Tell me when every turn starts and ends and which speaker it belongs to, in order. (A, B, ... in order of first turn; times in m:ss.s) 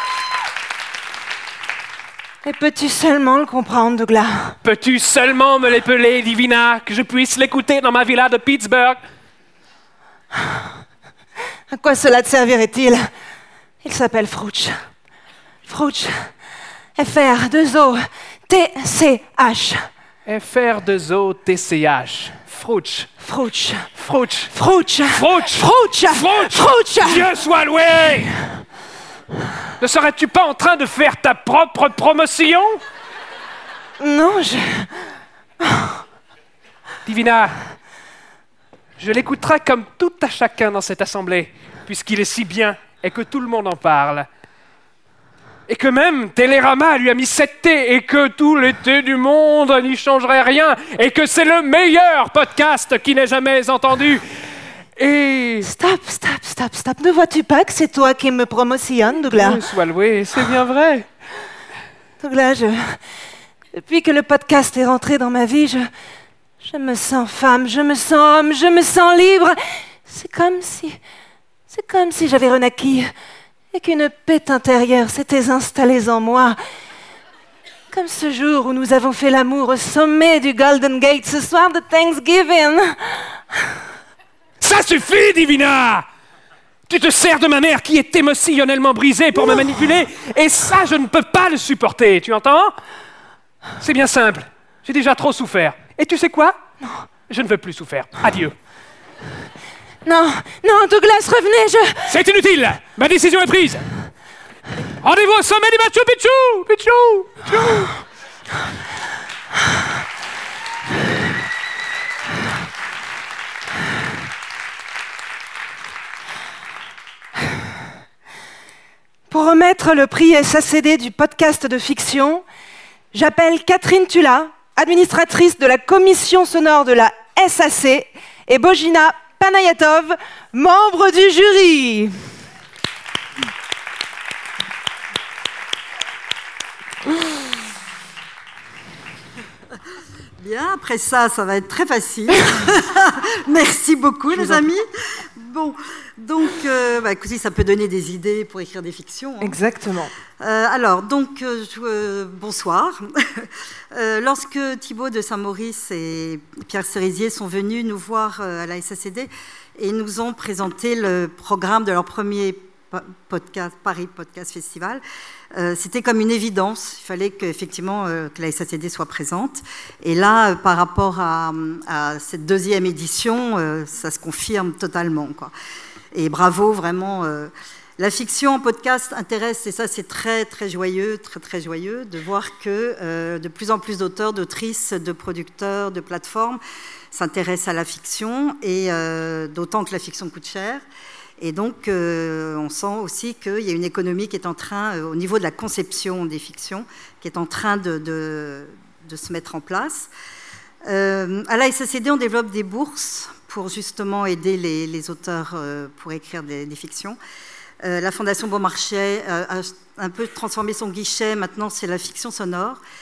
0:02.4-0:04.6 A
0:04.6-0:09.0 B
0:10.4-0:10.7 A
0:11.7-0:13.1 A
0:13.8-0:14.9 A
0:15.6-0:16.4 A
0:17.0-0:19.9 A
0:20.3-0:23.1 B
0:23.2-0:23.9 A
0:24.0-0:24.5 B
0:24.5-0:27.3 A
0:25.2-0:28.3 B
0:29.8-0:32.8 B
0:34.0-0:34.9 A
0:35.6-0:36.0 A
0:37.1-0:37.5 B
0:39.0-0:44.3 B
0:45.7-0:54.2 B
0:55.0-0:55.7 B
0:55.6-0:59.6 A
0:59.2-1:01.0 B
1:02.2-1:03.0 A
1:03.7-1:05.9 A
1:06.6-1:11.0 A
1:11.7-1:13.1 A
1:13.7-1:16.6 A
1:17.9-1:23.4 A
1:24.6-1:26.0 B
1:26.9-1:32.8 B
1:33.8-1:36.6 B
1:37.3-1:38.5 B
1:40.0-1:42.1 A
1:42.1-1:43.8 B
1:45.0-1:47.9 B
1:47.5-1:47.9 A
1:59.3-2:02.4 A
2:03.1-2:12.1 A
2:20.4-2:24.8 C
2:24.3-2:24.6 A
2:25.4-2:29.6 C
2:29.4-2:30.1 A
2:30.4-2:33.1 C
2:33.9-2:45.0 C
2:45.6-2:55.5 C
2:56.1-3:06.6 C
3:07.1-3:10.8 C
3:11.4-3:20.1 C
3:20.9-3:27.2 C
3:27.8-3:32.8 C